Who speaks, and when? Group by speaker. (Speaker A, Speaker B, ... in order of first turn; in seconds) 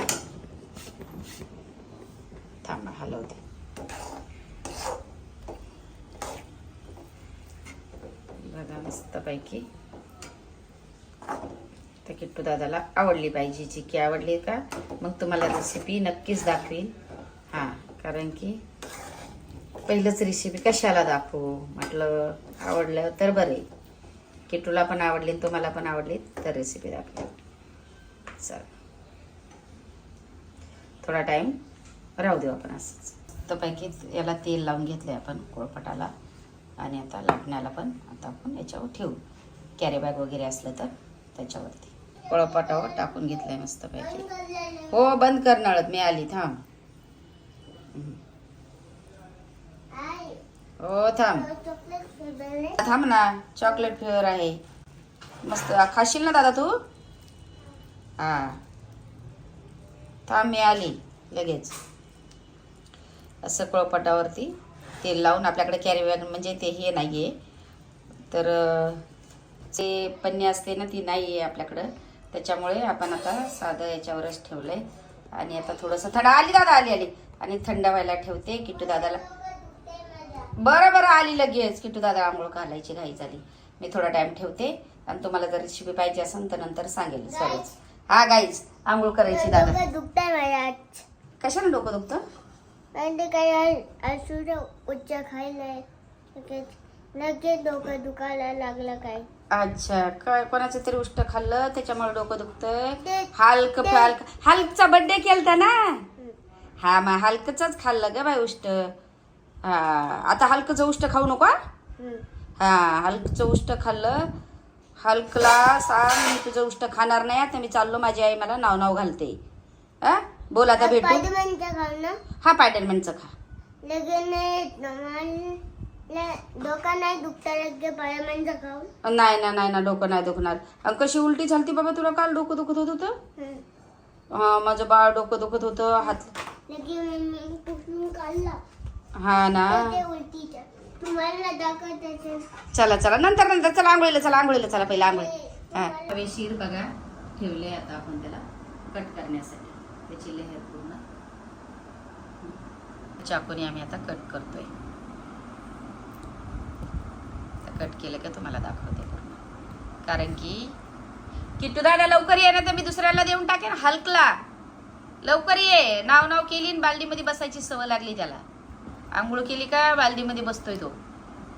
Speaker A: 2.6-3.4, 8.4-9.7, 12.0-16.9, 17.5-18.6, 19.9-23.6, 24.5-27.3, 28.4-28.7, 31.0-31.6, 32.2-36.1, 36.8-39.2, 39.8-44.2, 44.9-46.6, 47.9-48.2, 50.8-51.5, 52.8-54.6, 55.4-56.8, 58.2-58.6, 60.3-61.8, 63.4-67.3, 68.3-69.0, 69.7-79.2, 80.6-89.8, 91.4-92.2, 99.5-106.0, 106.8-108.9, 109.6-111.6, 112.6-114.3, 115.0-119.4, 120.0-121.3, 122.4-123.3, 129.0-133.2, 134.3-136.3, 139.2-140.0, 142.7-151.0, 153.2-154.7, 157.6-159.4, 160.0-160.7, 161.6-164.4, 165.2-168.4, 169.1-170.9
Speaker B: 42.3-45.1, 49.9-50.4, 51.3-52.8, 78.8-80.5, 87.3-87.7, 89.3-91.0, 92.9-95.8, 96.3-99.3, 103.0-104.2, 120.8-122.2, 123.8-128.9, 133.4-133.6, 136.7-138.6, 139.7-142.4, 144.8-146.1